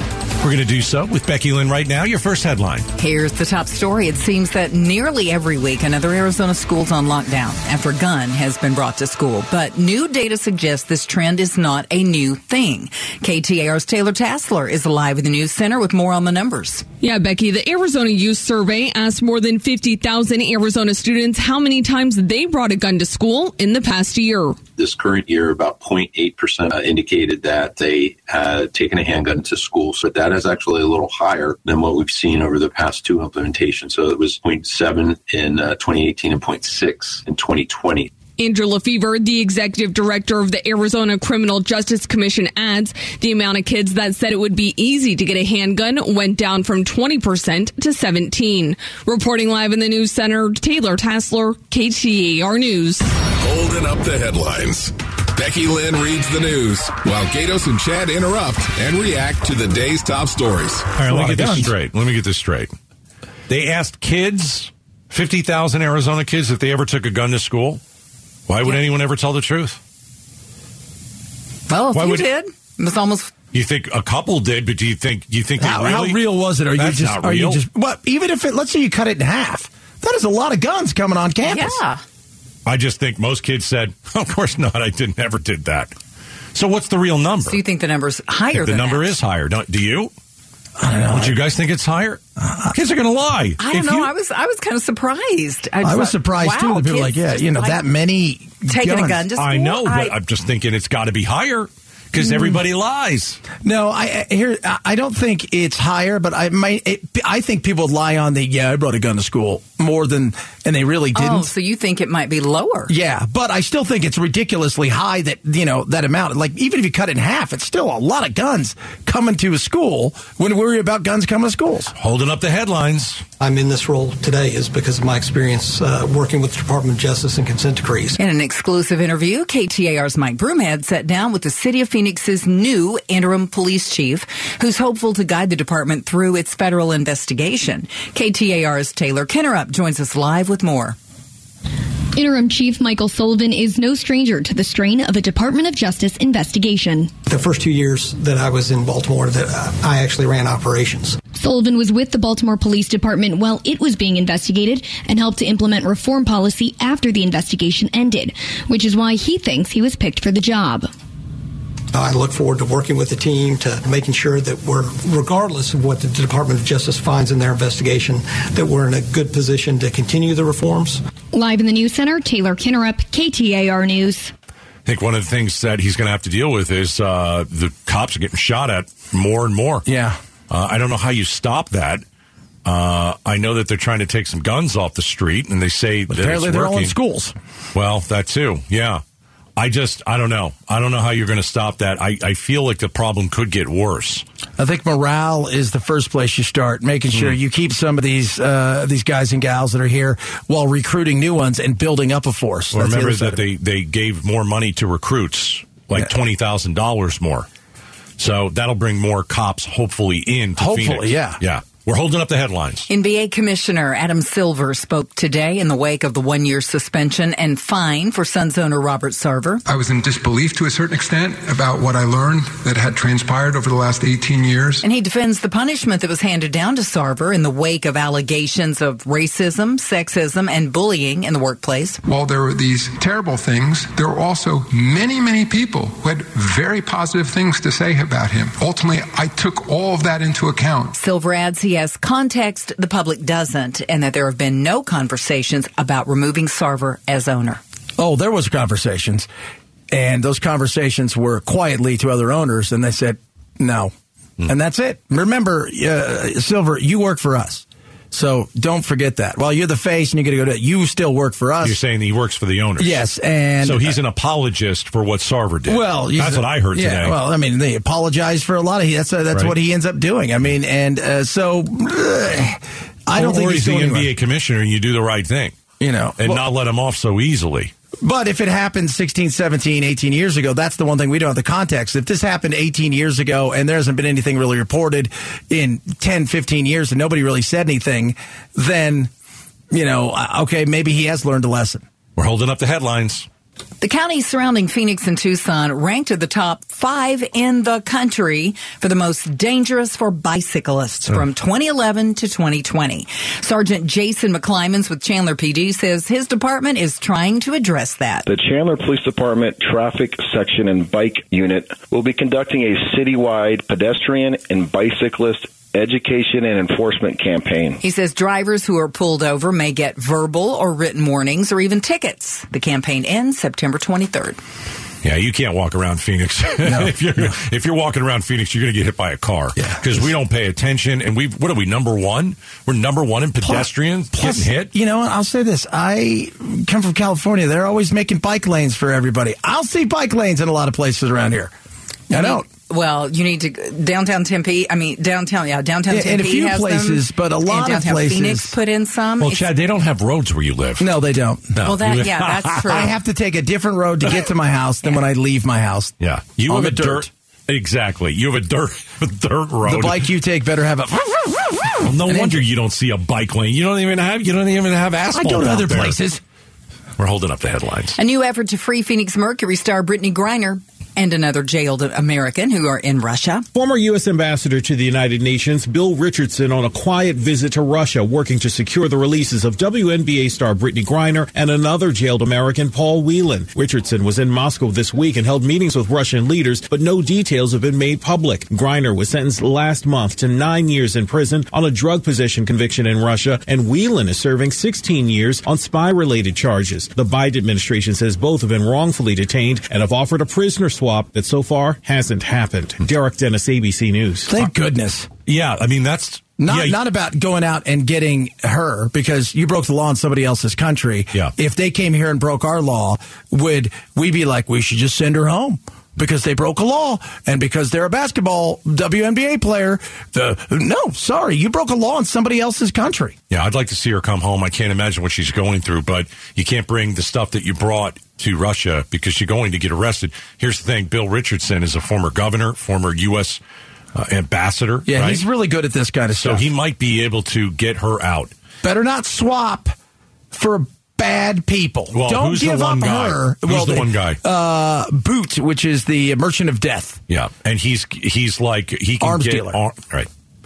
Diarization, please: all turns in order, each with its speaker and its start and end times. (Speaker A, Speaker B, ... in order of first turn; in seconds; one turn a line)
Speaker A: 0.4-2.9
Speaker B: 3.0-16.9
Speaker C: 17.0-24.6
Speaker D: 24.7-38.2
Speaker C: 38.4-53.1
Speaker E: 53.4-60.9
Speaker A: 61.0-62.7
Speaker F: 61.0-61.7
Speaker A: 63.5-67.8
Speaker A: 68.5-69.8
Speaker B: 71.7-73.3
Speaker A: 71.9-72.3
Speaker A: 73.5-77.6
Speaker F: 75.6-81.8
Speaker B: 81.4-82.0
Speaker A: 82.7-85.9
Speaker A: 86.5-87.6
Speaker B: 87.5-89.1
Speaker A: 88.5-90.1
Speaker F: 90.8-91.4
Speaker A: 91.1-94.1
Speaker F: 92.4-92.7
Speaker B: 93.6-97.8
Speaker F: 95.8-99.3
Speaker B: 98.7-100.1
Speaker A: 99.4-103.4
Speaker F: 103.6-111.5
Speaker B: 111.1-112.9
Speaker F: 112.9-121.9
Speaker A: 122.0-123.2
Speaker G: 123.4-128.2
Speaker B: 128.2-140.9
Speaker H: 142.1-147.1
Speaker G: 147.3-151.2
Speaker H: 151.3-160.9
Speaker G: 161.9-171.0
Speaker H: 171.3-174.3
Speaker A: 174.8-179.8
Speaker F: 179.8-180.2
Speaker A: 180.5-182.0
Speaker A: 182.6-186.9
Speaker F: 186.1-187.3
Speaker A: 187.7-189.0
Speaker A: 189.6-194.2
Speaker F: 194.6-203.4
Speaker A: 197.1-197.4
Speaker A: 202.7-207.5
Speaker A: 208.2-212.9
Speaker F: 210.6-211.4
Speaker B: 212.9-219.6
Speaker I: 219.7-224.8
Speaker B: 224.8-232.0
Speaker I: 232.0-240.9
Speaker B: 240.9-247.6
Speaker F: 248.0-249.3
Speaker F: 249.9-253.9
Speaker F: 254.5-261.8
Speaker A: 261.6-263.0
Speaker F: 262.8-264.0
Speaker A: 263.6-267.2
Speaker F: 265.6-274.1
Speaker A: 273.1-275.6
Speaker F: 275.8-276.4
Speaker A: 276.2-277.7
Speaker F: 278.0-289.1
Speaker F: 289.7-291.8
Speaker A: 292.1-293.3
Speaker B: 293.8-308.3
Speaker J: 308.3-317.8
Speaker B: 317.8-324.4
Speaker A: 325.0-334.7
Speaker F: 326.6-327.3
Speaker F: 329.6-330.1
Speaker F: 333.4-341.5
Speaker F: 342.1-342.4
Speaker B: 342.1-349.5
Speaker F: 345.9-348.5
Speaker A: 349.2-350.9
Speaker F: 350.8-351.6
Speaker A: 351.5-352.6
Speaker B: 351.6-352.9
Speaker F: 352.7-355.9
Speaker A: 356.0-360.1
Speaker F: 356.5-357.1
Speaker F: 359.6-362.4
Speaker A: 361.8-366.0
Speaker F: 365.1-366.2
Speaker A: 367.0-367.9
Speaker B: 367.9-373.4
Speaker K: 373.5-404.3
Speaker F: 404.3-405.1
Speaker A: 405.2-406.8
Speaker F: 406.4-423.1
Speaker A: 423.3-433.4
Speaker A: 433.9-435.2
Speaker F: 434.9-436.4
Speaker A: 436.2-438.3
Speaker F: 438.6-439.7
Speaker F: 440.3-447.0
Speaker A: 441.9-444.2
Speaker A: 447.1-450.1
Speaker F: 449.0-449.6